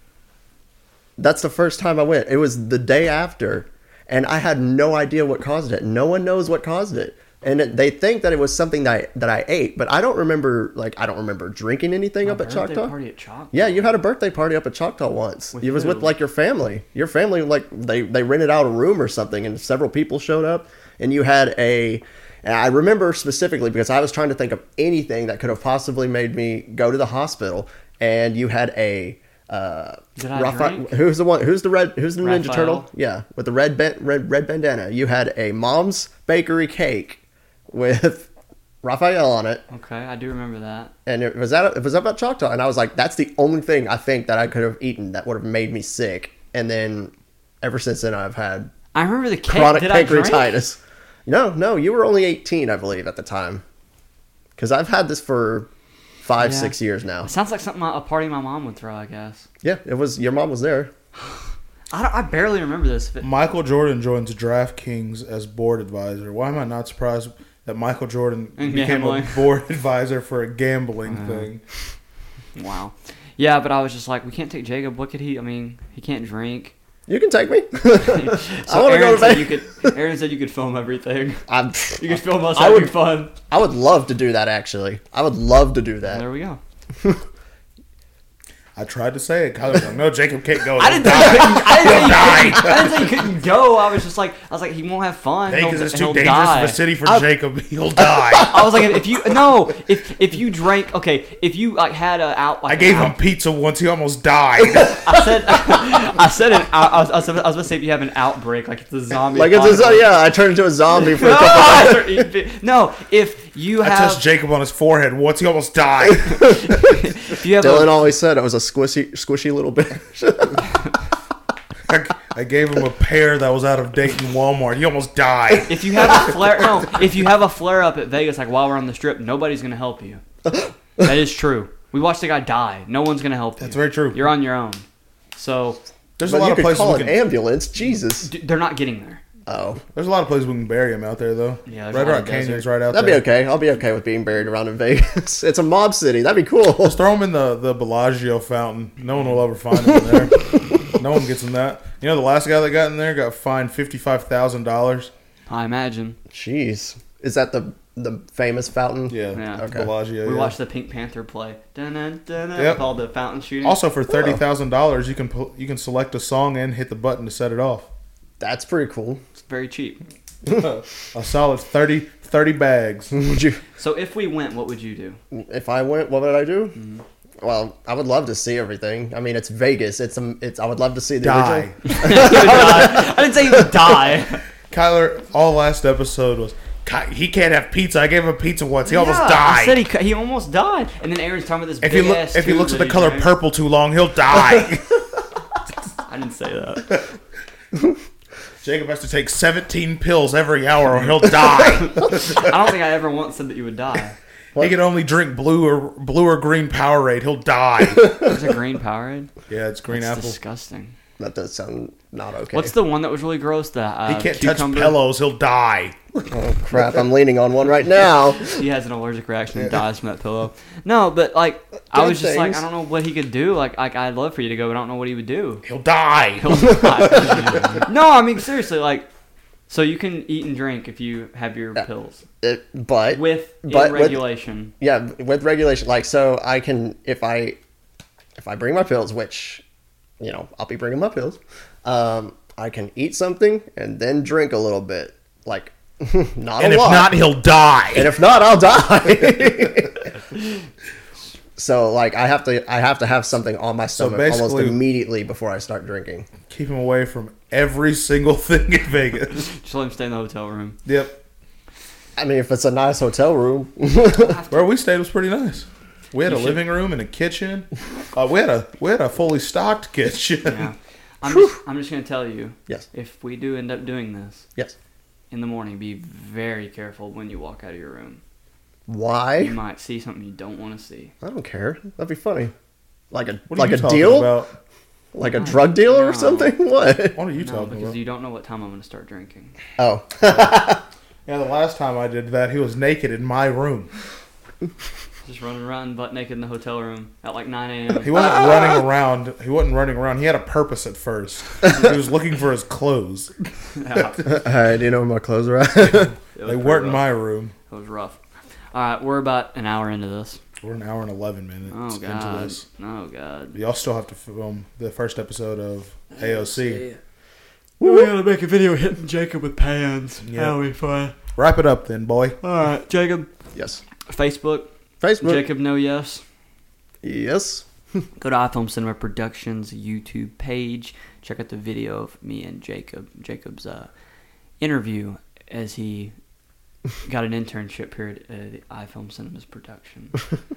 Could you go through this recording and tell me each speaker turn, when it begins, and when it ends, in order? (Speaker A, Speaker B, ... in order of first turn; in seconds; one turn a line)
Speaker A: 1.2-12.9
Speaker B: 12.2-13.9
Speaker A: 13.5-38.3
Speaker B: 15.6-16.2
Speaker B: 30.2-30.9
Speaker B: 32.2-32.9
Speaker A: 38.8-39.6
Speaker B: 39.7-40.9
Speaker A: 41.1-48.7
Speaker B: 48.9-50.6
Speaker A: 49.5-53.6
Speaker A: 54.6-55.7
Speaker A: 56.2-57.3
Speaker B: 56.4-59.5
Speaker A: 59.6-60.9
Speaker B: 61.9-63.3
Speaker C: 63.2-71.6
Speaker B: 68.6-69.5
Speaker B: 71.1-71.5
Speaker B: 72.6-76.8
Speaker A: 77.1-80.0
Speaker B: 78.0-83.3
Speaker A: 81.5-86.2
Speaker B: 86.1-86.6
Speaker C: 88.8-93.1
Speaker B: 90.8-96.8
Speaker A: 91.4-91.8
Speaker C: 95.5-98.6
Speaker B: 98.4-103.2
Speaker C: 102.7-105.3
Speaker B: 105.0-110.1
Speaker A: 109.3-112.2
Speaker B: 111.0-114.2
Speaker C: 113.8-116.8
Speaker A: 116.3-116.7
Speaker B: 116.4-118.0
Speaker A: 117.6-120.7
Speaker C: 121.9-126.2
Speaker B: 125.7-130.2
Speaker B: 131.0-135.8
Speaker C: 133.6-134.3
Speaker C: 136.2-137.2
Speaker A: 136.2-138.3
Speaker B: 138.2-139.2
Speaker A: 139.4-139.8
Speaker C: 139.9-143.2
Speaker B: 141.7-142.7
Speaker A: 142.9-147.0
Speaker C: 146.8-155.1
Speaker B: 155.5-156.2
Speaker A: 156.3-159.9
Speaker C: 159.1-160.6
Speaker B: 159.3-159.7
Speaker B: 160.2-163.8
Speaker C: 162.6-162.8
Speaker C: 163.6-167.9
Speaker A: 164.1-164.4
Speaker A: 168.4-169.2
Speaker B: 169.4-170.0
Speaker C: 170.4-173.2
Speaker A: 173.1-173.6
Speaker B: 173.8-175.2
Speaker A: 175.3-176.8
Speaker B: 176.8-177.0
Speaker A: 177.4-183.9
Speaker C: 181.2-182.4
Speaker B: 181.9-184.4
Speaker C: 184.7-189.8
Speaker B: 188.9-193.3
Speaker C: 191.8-195.2
Speaker B: 196.1-197.0
Speaker C: 198.6-202.5
Speaker B: 201.6-204.2
Speaker C: 204.6-208.3
Speaker B: 208.2-209.3
Speaker C: 209.5-210.4
Speaker B: 209.9-210.9
Speaker A: 211.2-212.7
Speaker B: 212.5-215.0
Speaker C: 214.1-215.9
Speaker A: 216.2-218.6
Speaker B: 218.4-225.7
Speaker A: 221.9-222.7
Speaker C: 225.6-227.8
Speaker B: 226.4-229.1
Speaker B: 229.7-232.2
Speaker A: 232.4-234.3
Speaker B: 233.1-234.7
Speaker A: 234.8-237.6
Speaker A: 238.4-239.6
Speaker A: 240.2-247.1
Speaker C: 246.6-248.2
Speaker A: 247.9-250.1
Speaker A: 251.6-256.3
Speaker C: 253.9-254.8
Speaker C: 256.5-259.5
Speaker B: 259.4-260.8
Speaker C: 260.9-261.2
Speaker A: 262.2-264.4
Speaker B: 264.1-264.7
Speaker C: 264.5-270.7
Speaker B: 266.2-266.6
Speaker B: 270.4-274.4
Speaker A: 271.3-271.6
Speaker B: 275.3-278.2
Speaker A: 278.9-279.6
Speaker B: 279.4-281.1
Speaker A: 281.2-282.5
Speaker A: 283.1-284.4
Speaker C: 283.5-284.5
Speaker A: 285.1-287.2
Speaker B: 285.2-286.6
Speaker C: 287.2-288.0
Speaker B: 287.4-289.6
Speaker A: 289.8-290.8
Speaker C: 290.2-290.6
Speaker C: 291.3-293.9
Speaker B: 295.2-298.1
Speaker C: 298.0-303.3
Speaker A: 298.1-298.8
Speaker B: 303.7-304.2
Speaker C: 304.0-304.3
Speaker A: 304.3-306.1
Speaker C: 305.9-307.5
Speaker B: 306.4-307.1
Speaker B: 307.7-308.2
Speaker B: 308.7-310.4
Speaker C: 310.6-312.6
Speaker B: 311.7-313.6
Speaker C: 313.5-316.9
Speaker B: 316.2-317.0
Speaker B: 317.8-321.1
Speaker A: 317.8-318.1
Speaker C: 320.3-320.6
Speaker C: 321.4-322.4
Speaker B: 322.4-323.3
Speaker A: 323.6-323.8
Speaker B: 324.1-326.2
Speaker A: 325.0-325.4
Speaker A: 327.0-328.1
Speaker B: 328.2-333.9
Speaker B: 334.6-336.1
Speaker B: 337.1-340.2